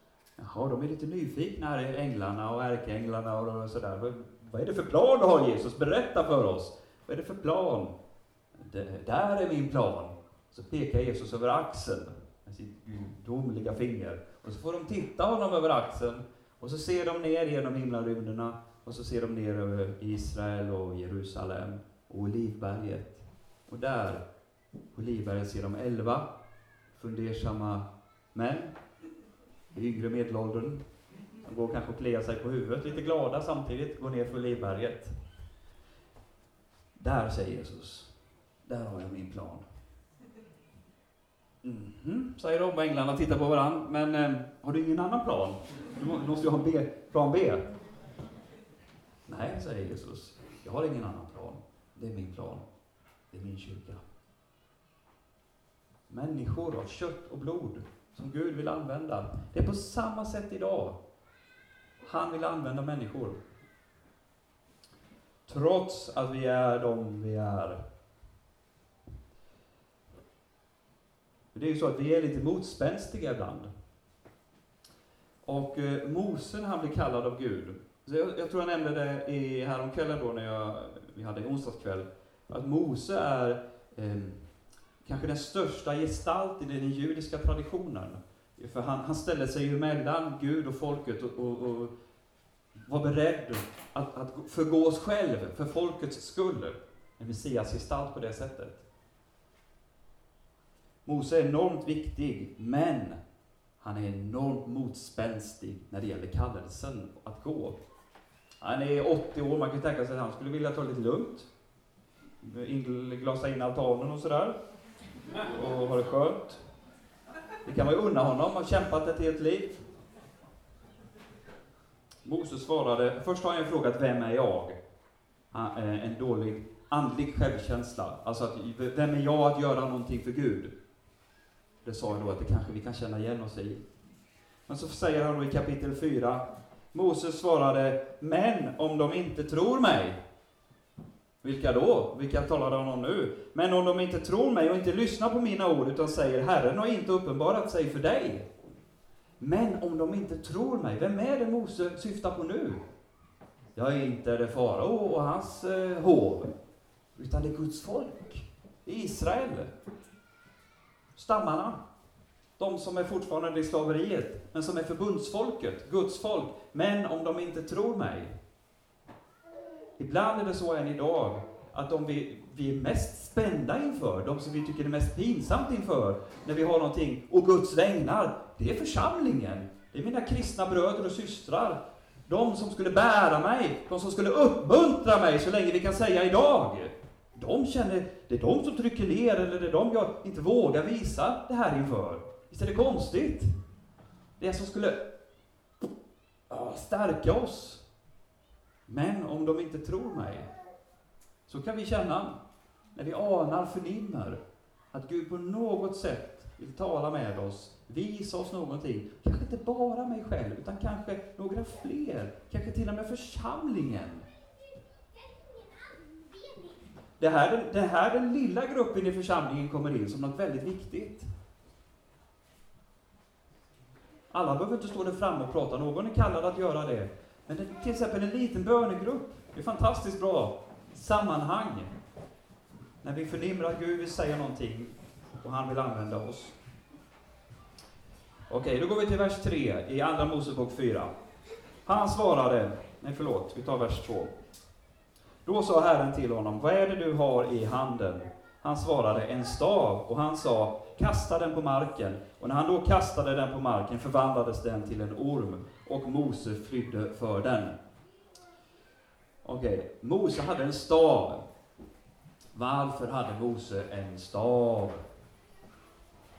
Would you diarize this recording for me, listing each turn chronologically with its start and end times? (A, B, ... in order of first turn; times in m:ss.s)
0:00.4-0:07.9 A
0:08.5-0:24.2 A
0:24.9-0:26.3 A
0:26.9-0:28.8 A
0:29.7-0:30.8 A
0:31.4-0:35.1 A
0:37.0-0:39.6 A
0:41.6-0:47.7 A
0:49.2-0:52.6 A
0:53.3-0:54.0 A
0:56.1-1:01.0 A
1:02.0-1:03.4 A
1:05.4-1:07.8 A
1:11.5-1:13.7 A
1:15.4-1:24.5 A
1:25.0-1:31.9 A
1:32.7-1:38.8 A
1:41.0-1:43.2 A
1:43.8-1:47.8 A
1:48.6-1:51.5 A
1:52.4-1:54.5 A
1:55.4-1:56.6 A
1:57.6-1:59.8 A
2:02.2-2:04.8 A
2:05.5-2:10.7 A
2:11.8-2:13.8 A
2:14.7-2:20.2 A
2:21.4-2:28.5 A
2:29.4-2:32.8 A
2:33.7-2:36.5 A
2:37.2-2:39.7 A
2:41.1-2:41.8 A
2:42.6-2:48.3 A
2:50.0-3:13.5 A
3:14.4-3:15.0 A
3:16.5-3:17.8 A
3:18.9-3:20.5 A
3:21.5-3:22.4 A
3:22.9-3:24.4 A
3:24.9-3:34.2 A
3:37.2-3:41.3 A
3:44.3-3:51.9 A
3:53.0-3:56.6 A
3:58.5-4:01.1 A
4:01.8-4:04.3 A
4:05.4-4:17.8 A
4:19.4-4:21.4 A
4:22.5-4:25.0 A